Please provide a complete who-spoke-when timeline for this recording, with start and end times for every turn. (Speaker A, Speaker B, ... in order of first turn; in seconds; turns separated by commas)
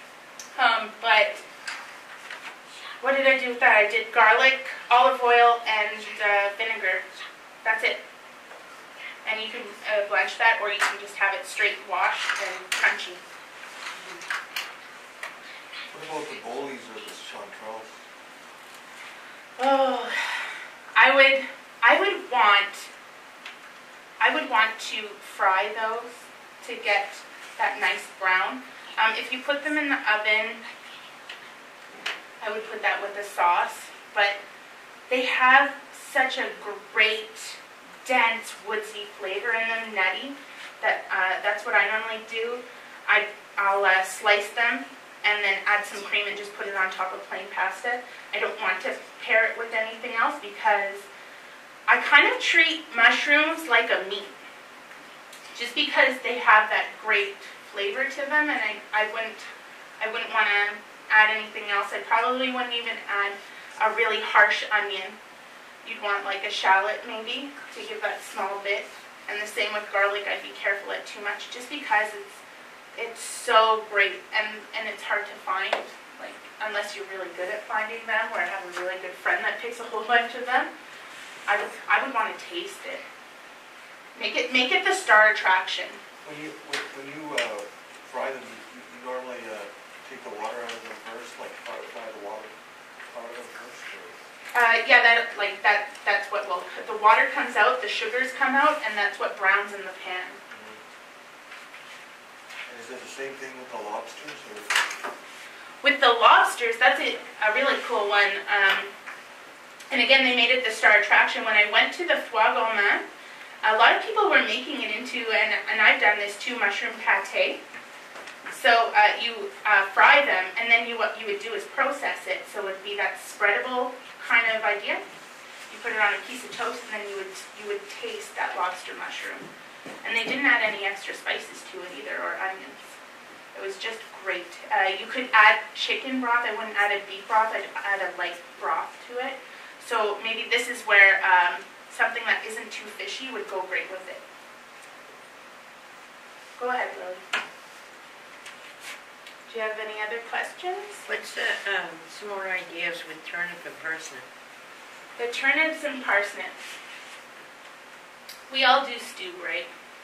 Speaker A: 0.6-1.4, Speaker A: 3.0-7.0, Speaker A: 7.6-8.0, Speaker A: 9.2-13.2, Speaker B: 15.9-18.0, Speaker A: 19.6-22.9, Speaker A: 24.2-30.6, Speaker A: 32.4-34.4, Speaker A: 35.1-51.1, Speaker A: 51.9-54.4, Speaker A: 55.5-59.5, Speaker A: 60.0-65.2, Speaker A: 65.8-72.4, Speaker A: 73.0-80.7, Speaker A: 81.5-83.0, Speaker A: 84.2-86.0, Speaker B: 86.2-94.2, Speaker A: 94.5-100.4, Speaker B: 100.5-100.8, Speaker B: 102.7-105.0, Speaker A: 105.8-108.9, Speaker A: 109.9-113.1, Speaker A: 113.6-117.6, Speaker A: 118.5-125.0, Speaker A: 125.7-129.5, Speaker A: 130.0-132.9, Speaker A: 133.5-144.2, Speaker A: 146.6-147.2, Speaker A: 149.5-151.1, Speaker C: 151.1-154.3, Speaker A: 155.2-156.6, Speaker A: 158.5-159.7